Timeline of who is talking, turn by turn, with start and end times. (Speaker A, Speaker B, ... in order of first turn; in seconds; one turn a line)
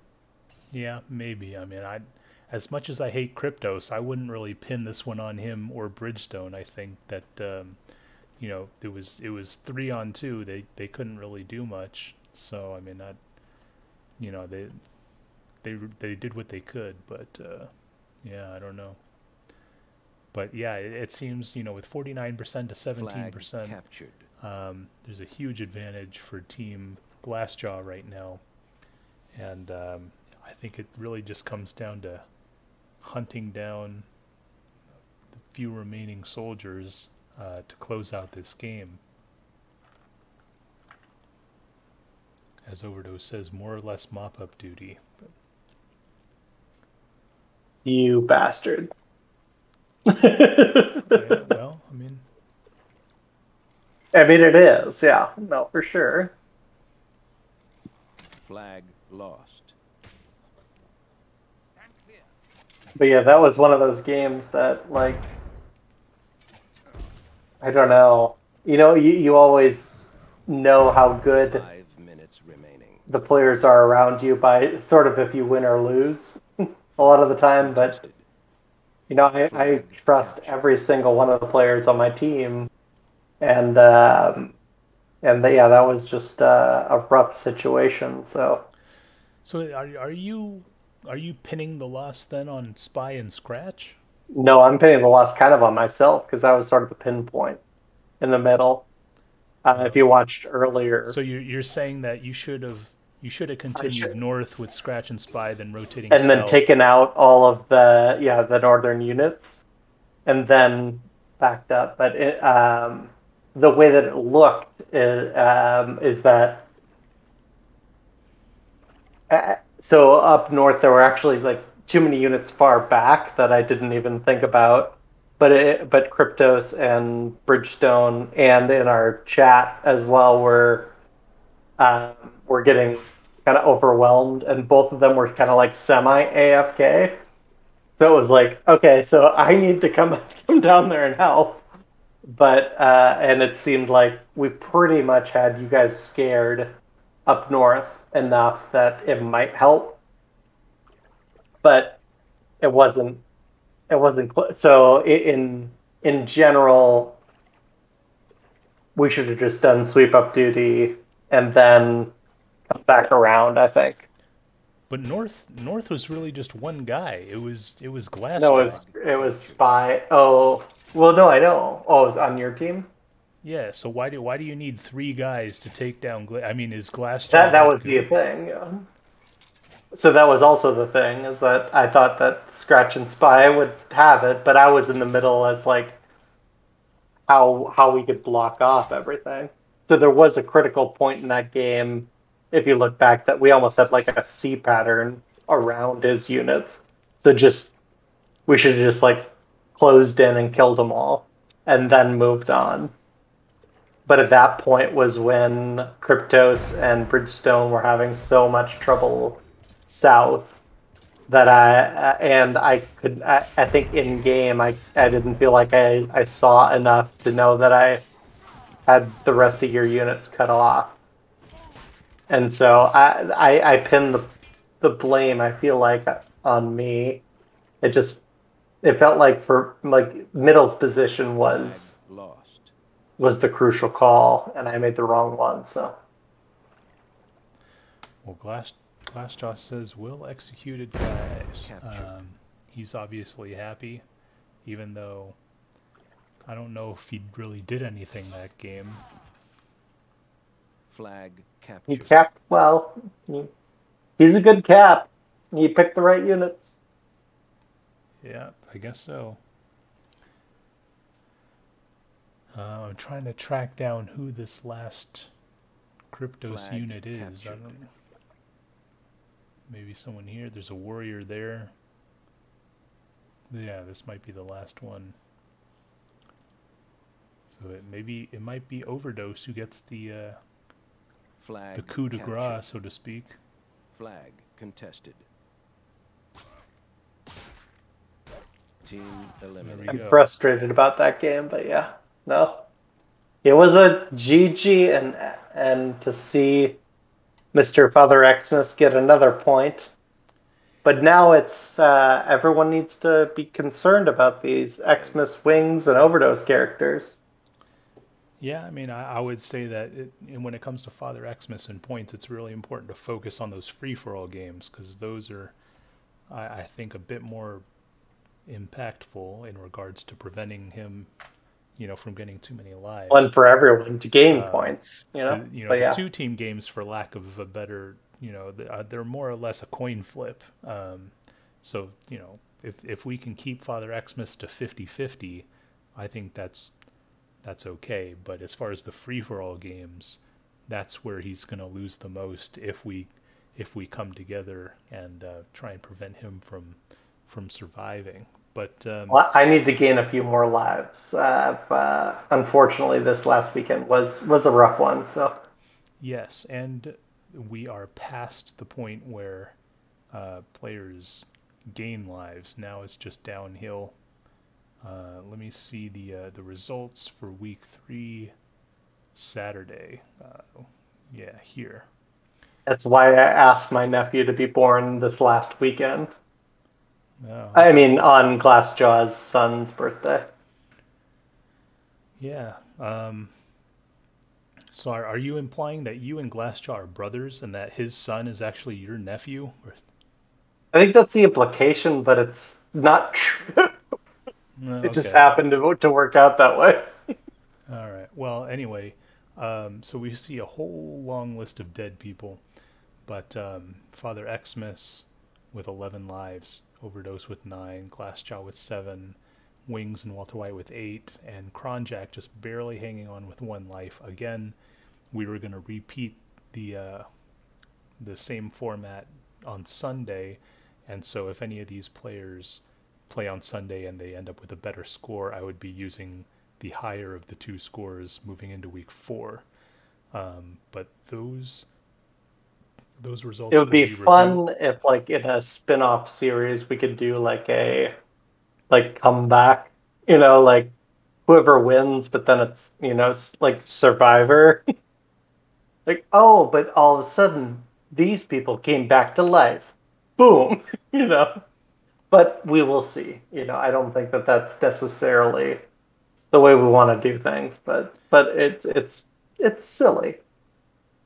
Speaker A: 0.7-7.8
Speaker A: 8.4-13.2
Speaker A: 14.2-14.8
Speaker A: 15.6-17.7
Speaker A: 18.2-19.0
Speaker A: 20.3-23.8
Speaker B: 23.0-24.3
Speaker A: 24.4-28.4
Speaker A: 29.3-32.2
Speaker A: 33.0-34.0
Speaker A: 35.3-39.0
Speaker A: 42.6-45.3
Speaker C: 47.8-48.9
Speaker C: 50.0-51.5
Speaker A: 50.9-52.2
Speaker C: 54.1-56.3
Speaker B: 58.4-59.7
Speaker C: 63.0-65.3
Speaker C: 67.6-71.6
Speaker B: 71.3-73.1
Speaker C: 73.1-78.0
Speaker B: 77.0-78.2
Speaker C: 79.1-82.7
Speaker B: 79.4-80.6
Speaker C: 83.4-84.5
Speaker C: 85.2-88.7
Speaker A: 89.4-94.0
Speaker C: 94.3-97.6
Speaker C: 98.2-98.9
Speaker C: 99.6-101.2
Speaker A: 99.7-100.0
Speaker A: 101.1-106.7
Speaker C: 103.8-104.1
Speaker C: 106.1-109.6
Speaker C: 110.2-116.7
Speaker C: 119.3-130.9
Speaker C: 131.8-137.2
Speaker C: 138.0-141.6
Speaker C: 142.3-146.7
Speaker C: 147.2-150.0
Speaker C: 151.6-152.0
Speaker C: 152.6-153.2
Speaker C: 153.9-157.2
Speaker C: 158.9-162.1
Speaker C: 162.7-164.1
Speaker A: 164.9-168.8
Speaker B: 168.4-169.6
Speaker C: 168.4-172.9
Speaker A: 173.4-178.1
Speaker C: 177.3-178.9
Speaker C: 179.9-186.0
Speaker C: 187.3-197.7
Speaker C: 198.5-202.9
Speaker C: 204.1-210.6
Speaker C: 211.3-218.0
Speaker C: 218.8-220.9
Speaker C: 222.3-227.2
Speaker C: 227.8-228.2
Speaker C: 228.8-231.9
Speaker B: 231.4-232.7
Speaker C: 233.2-235.9
Speaker A: 238.2-244.0
Speaker B: 241.6-242.1
Speaker A: 244.6-245.4
Speaker A: 246.5-249.1
Speaker B: 250.9-252.3
Speaker C: 251.9-253.5
Speaker C: 254.2-256.7
Speaker A: 258.2-259.4
Speaker A: 262.5-265.3
Speaker A: 266.1-267.9
Speaker B: 266.4-267.8
Speaker A: 269.7-271.7
Speaker A: 273.5-275.1
Speaker A: 277.5-280.4
Speaker B: 281.4-282.6
Speaker A: 281.8-283.4
Speaker B: 283.9-285.2
Speaker B: 288.8-290.1
Speaker A: 289.6-290.3
Speaker C: 289.9-292.6
Speaker C: 293.4-296.8
Speaker C: 297.5-299.9
Speaker C: 300.8-307.2
Speaker B: 304.9-305.3
Speaker A: 308.4-315.5
Speaker A: 316.3-317.6
Speaker A: 318.5-321.1
Speaker A: 321.8-323.3
Speaker C: 323.1-326.0
Speaker A: 324.3-336.7
Speaker A: 337.4-349.2
Speaker C: 349.1-355.3
Speaker A: 356.0-359.6
Speaker A: 360.1-363.9
Speaker A: 364.8-368.3
Speaker A: 369.1-371.9
Speaker C: 372.6-376.1
Speaker A: 377.2-377.7
Speaker C: 377.5-380.2
Speaker A: 382.2-383.3
Speaker A: 384.7-389.8
Speaker C: 390.7-393.8
Speaker A: 394.6-395.3
Speaker C: 394.8-396.9
Speaker A: 397.7-402.4
Speaker A: 403.1-414.5
Speaker A: 415.1-417.1
Speaker A: 418.0-429.4
Speaker A: 430.1-431.7
Speaker A: 433.0-434.4
Speaker C: 433.5-437.9
Speaker C: 438.7-440.7
Speaker C: 441.3-444.6
Speaker C: 445.9-451.3
Speaker C: 452.1-455.6
Speaker C: 456.3-460.2